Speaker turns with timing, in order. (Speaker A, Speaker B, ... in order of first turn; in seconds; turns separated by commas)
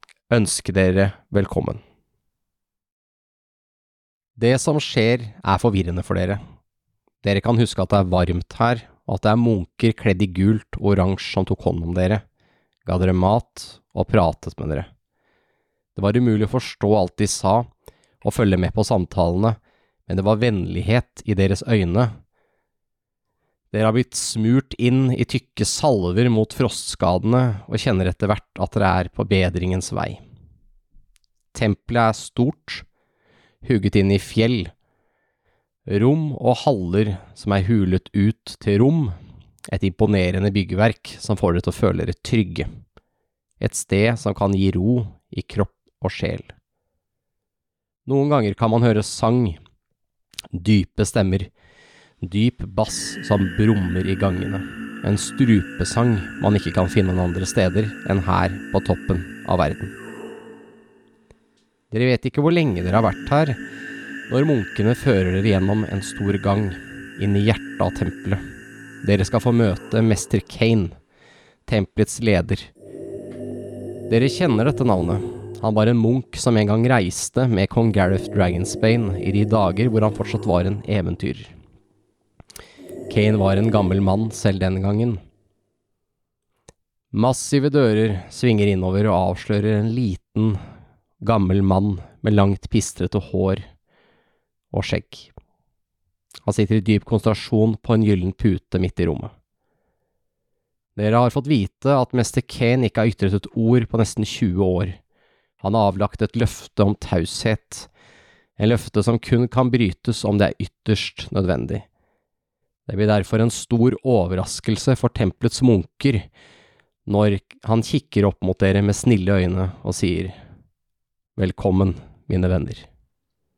Speaker A: 0.3-1.8, Speaker A: 4.4-6.4, Speaker A: 7.2-12.2, Speaker A: 12.8-14.9, Speaker A: 15.9-17.7, Speaker A: 18.2-22.1, Speaker A: 23.7-30.2, Speaker A: 31.5-32.8, Speaker A: 33.6-34.7, Speaker A: 35.9-39.1, Speaker A: 39.7-42.7, Speaker A: 43.6-46.5, Speaker A: 48.0-49.6, Speaker A: 50.5-51.5, Speaker A: 52.2-59.9, Speaker A: 61.9-63.6, Speaker A: 64.3-68.4, Speaker A: 69.0-71.0, Speaker A: 71.7-72.7, Speaker A: 74.1-81.5, Speaker A: 83.1-85.2, Speaker A: 87.1-90.6, Speaker A: 91.2-93.6, Speaker A: 94.7-95.3, Speaker A: 96.4-99.3, Speaker A: 101.0-105.0, Speaker A: 105.6-107.9, Speaker A: 108.6-111.8, Speaker A: 112.9-116.3, Speaker A: 117.0-120.4, Speaker A: 121.3-122.8